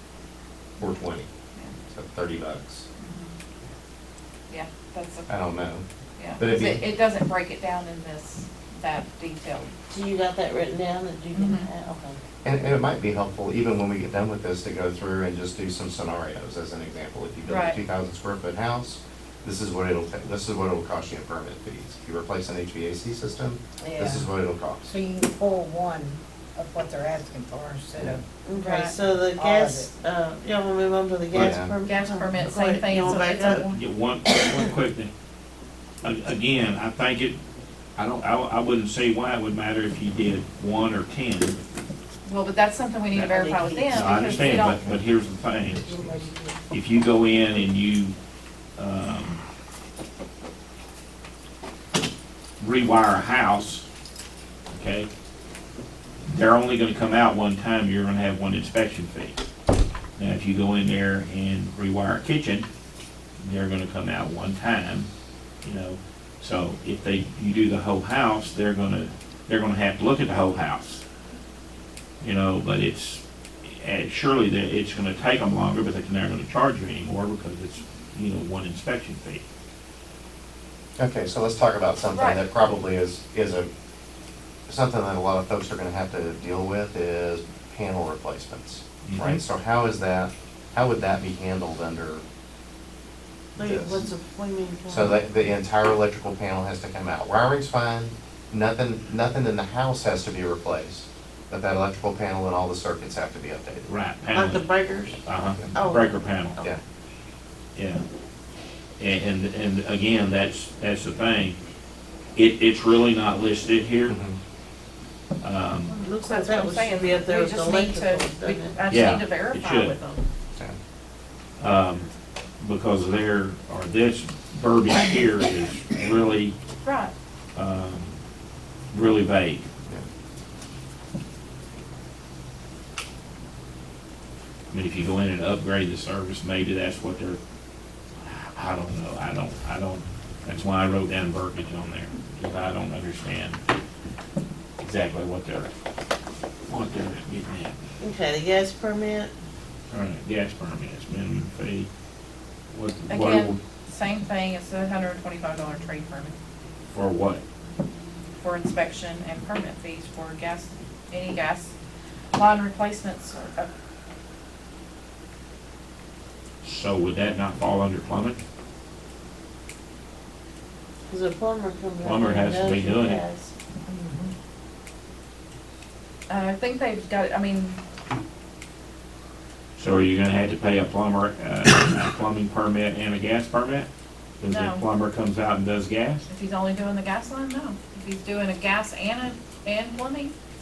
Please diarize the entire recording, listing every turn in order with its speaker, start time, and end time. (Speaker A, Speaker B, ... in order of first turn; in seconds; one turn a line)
Speaker A: 0.8-1.3
Speaker A: 1.9-2.9
Speaker B: 3.0-3.3
Speaker B: 4.5-5.3
Speaker A: 5.3-5.8
Speaker B: 6.2-9.7
Speaker A: 6.4-6.8
Speaker C: 9.9-12.2
Speaker B: 11.3-11.7
Speaker A: 12.4-24.9
Speaker B: 17.5-17.8
Speaker D: 23.8-24.3
Speaker D: 24.8-28.2
Speaker C: 28.4-33.7
Speaker B: 28.5-29.0
Speaker D: 29.2-29.9
Speaker A: 31.3-31.7
Speaker B: 31.8-33.8
Speaker E: 33.6-35.1
Speaker E: 36.0-37.4
Speaker E: 38.0-41.6
Speaker B: 42.2-45.0
Speaker E: 43.1-45.8
Speaker D: 43.3-44.5
Speaker D: 45.8-46.6
Speaker A: 45.8-46.2
Speaker E: 46.7-48.1
Speaker E: 48.8-49.4
Speaker E: 52.6-53.9
Speaker E: 54.7-55.1
Speaker E: 56.2-59.4
Speaker E: 60.2-62.7
Speaker E: 63.4-65.1
Speaker E: 65.6-71.0
Speaker E: 72.2-79.4
Speaker A: 81.0-83.7
Speaker B: 82.1-82.4
Speaker A: 84.7-92.2
Speaker E: 89.0-89.4
Speaker C: 93.6-95.2
Speaker A: 93.6-94.0
Speaker A: 94.9-103.9
Speaker E: 103.9-104.7
Speaker C: 104.3-105.2
Speaker E: 105.2-106.6
Speaker C: 105.8-106.7
Speaker E: 107.8-108.0
Speaker E: 109.0-111.6
Speaker E: 112.3-114.2
Speaker A: 114.1-114.4
Speaker E: 115.4-116.0
Speaker C: 115.9-118.8
Speaker B: 116.2-120.2
Speaker E: 118.9-120.0
Speaker E: 121.6-126.5
Speaker B: 126.8-127.1
Speaker E: 127.5-128.2
Speaker E: 128.9-129.7
Speaker E: 134.7-137.4
Speaker E: 138.2-143.6
Speaker E: 144.8-145.7
Speaker E: 146.7-147.8
Speaker C: 148.0-149.3
Speaker E: 149.9-151.9
Speaker E: 152.7-153.6
Speaker B: 153.1-156.3
Speaker E: 156.9-157.4
Speaker B: 158.4-161.7
Speaker B: 162.3-163.7
Speaker E: 166.6-168.4
Speaker C: 171.1-173.5
Speaker E: 172.0-173.2
Speaker B: 176.3-177.8
Speaker E: 179.8-183.9
Speaker E: 184.4-186.2
Speaker B: 184.4-184.8
Speaker B: 186.3-190.3